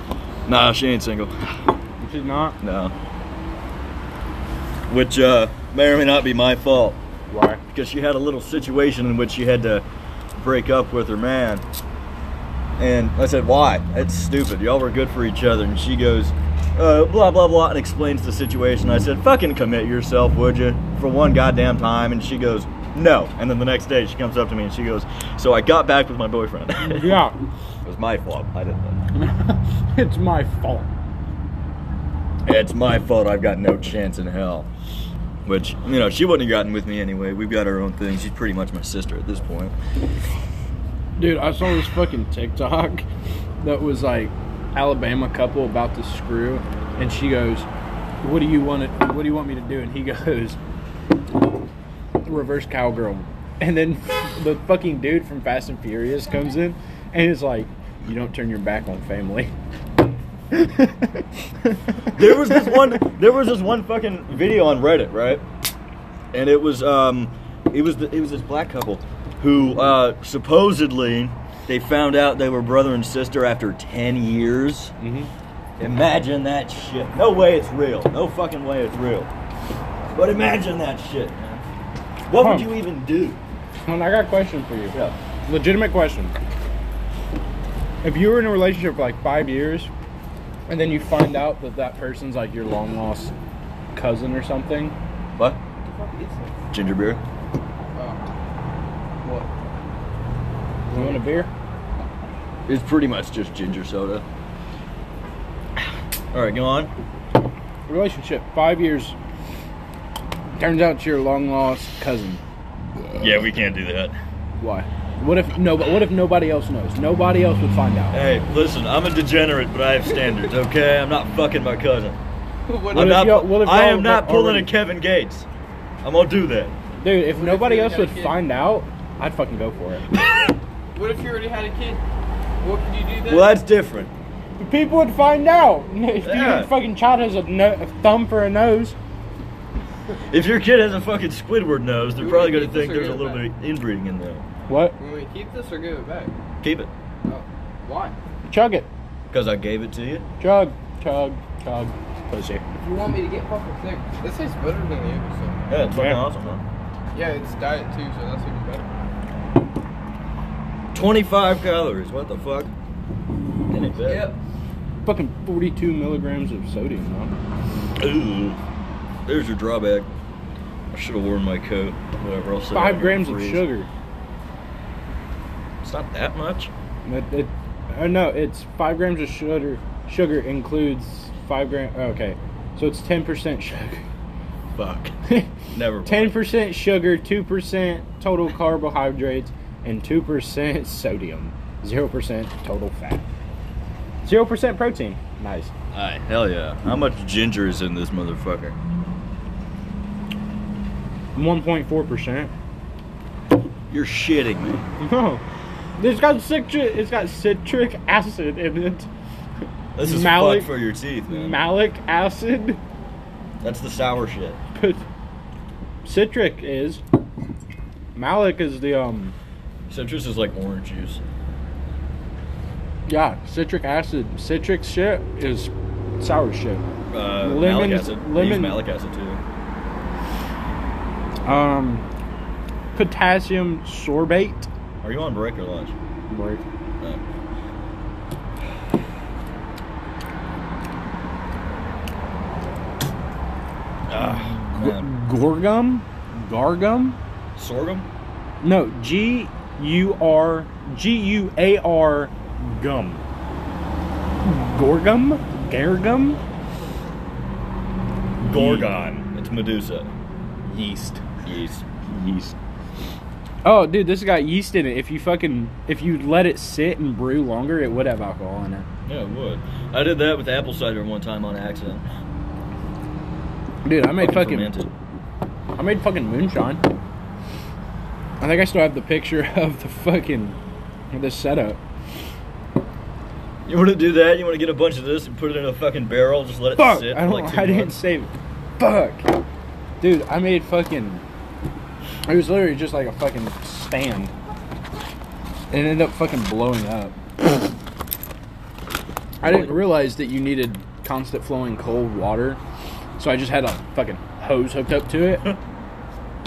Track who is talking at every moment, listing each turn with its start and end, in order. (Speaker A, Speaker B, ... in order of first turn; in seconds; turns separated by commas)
Speaker A: 0.5-1.8, Speaker B: 2.0-2.6, Speaker A: 2.6-3.0, Speaker A: 4.9-7.0, Speaker B: 7.3-7.6, Speaker A: 7.7-9.8, Speaker A: 10.4-11.6, Speaker A: 12.8-27.2, Speaker B: 26.8-27.4, Speaker A: 27.9-29.0, Speaker B: 29.2-30.9, Speaker A: 32.5-34.7, Speaker A: 35.5-39.8, Speaker B: 41.2-43.0, Speaker B: 43.6-47.7, Speaker B: 48.2-50.6, Speaker B: 52.2-59.5, Speaker B: 60.5-61.1, Speaker A: 62.1-65.4, Speaker A: 66.3-74.9, Speaker B: 75.0-75.3, Speaker A: 75.8-79.3, Speaker A: 80.1-81.7, Speaker A: 82.3-83.4, Speaker B: 82.3-82.8, Speaker B: 83.8-86.4, Speaker B: 88.0-89.9, Speaker B: 90.7-93.3, Speaker B: 94.0-95.0, Speaker C: 95.8-96.5, Speaker A: 96.7-97.2, Speaker C: 99.2-99.5, Speaker C: 100.9-101.5, Speaker B: 100.9-101.5, Speaker A: 102.7-104.2, Speaker A: 106.3-106.9, Speaker B: 107.9-109.2, Speaker B: 110.6-112.4, Speaker A: 113.2-114.2, Speaker B: 114.6-118.4, Speaker A: 118.1-122.2, Speaker C: 122.7-123.2, Speaker A: 122.9-125.5, Speaker B: 122.9-124.7, Speaker A: 126.0-126.8, Speaker B: 127.0-130.1, Speaker C: 127.3-128.4, Speaker C: 130.9-132.0, Speaker C: 132.6-133.6, Speaker A: 133.2-134.1, Speaker B: 134.6-139.0, Speaker A: 136.2-136.7, Speaker A: 140.3-144.4, Speaker C: 142.2-143.5, Speaker B: 144.7-145.0, Speaker C: 145.0-146.3, Speaker A: 146.6-146.9, Speaker C: 147.2-148.2, Speaker B: 148.5-148.9, Speaker A: 149.3-150.3, Speaker B: 150.4-152.6, Speaker C: 152.8-155.6, Speaker A: 155.7-156.6, Speaker B: 155.9-156.2, Speaker C: 157.1-158.9, Speaker A: 160.9-162.7, Speaker A: 163.7-164.3, Speaker C: 164.0-164.4, Speaker B: 165.1-167.3, Speaker A: 168.0-168.6, Speaker A: 169.3-170.1, Speaker A: 170.9-173.7, Speaker B: 172.7-173.9, Speaker A: 175.8-176.7, Speaker B: 177.1-184.1, Speaker B: 184.8-193.2, Speaker A: 185.7-186.5, Speaker B: 194.2-195.7, Speaker A: 195.9-198.8, Speaker B: 201.3-202.5, Speaker A: 203.9-204.9, Speaker B: 205.0-205.4, Speaker B: 206.0-209.1, Speaker A: 209.9-211.6, Speaker B: 210.0-210.7, Speaker B: 211.3-212.8, Speaker A: 213.6-214.6, Speaker B: 214.7-215.1, Speaker B: 216.1-217.0, Speaker B: 218.2-219.3, Speaker A: 219.9-221.2, Speaker B: 223.1-226.8, Speaker A: 227.1-229.4, Speaker B: 227.4-228.8, Speaker B: 231.4-232.1, Speaker B: 232.9-234.7, Speaker A: 235.0-235.9, Speaker B: 236.3-236.6, Speaker A: 244.1-245.1, Speaker B: 244.2-247.2, Speaker A: 247.6-248.1, Speaker B: 248.6-253.2, Speaker B: 254.4-256.4, Speaker B: 258.4-258.9, Speaker A: 258.4-260.1, Speaker B: 260.6-261.2, Speaker A: 261.4-262.1, Speaker B: 262.1-262.6, Speaker B: 263.6-268.9, Speaker A: 269.1-272.1, Speaker B: 273.8-274.7, Speaker A: 274.2-274.9, Speaker B: 275.8-276.8, Speaker B: 278.4-280.6, Speaker B: 281.1-281.8, Speaker A: 283.7-287.9, Speaker B: 286.8-289.3, Speaker B: 290.0-291.2, Speaker B: 292.3-294.3, Speaker B: 295.7-297.2, Speaker B: 299.4-302.6, Speaker B: 303.2-305.6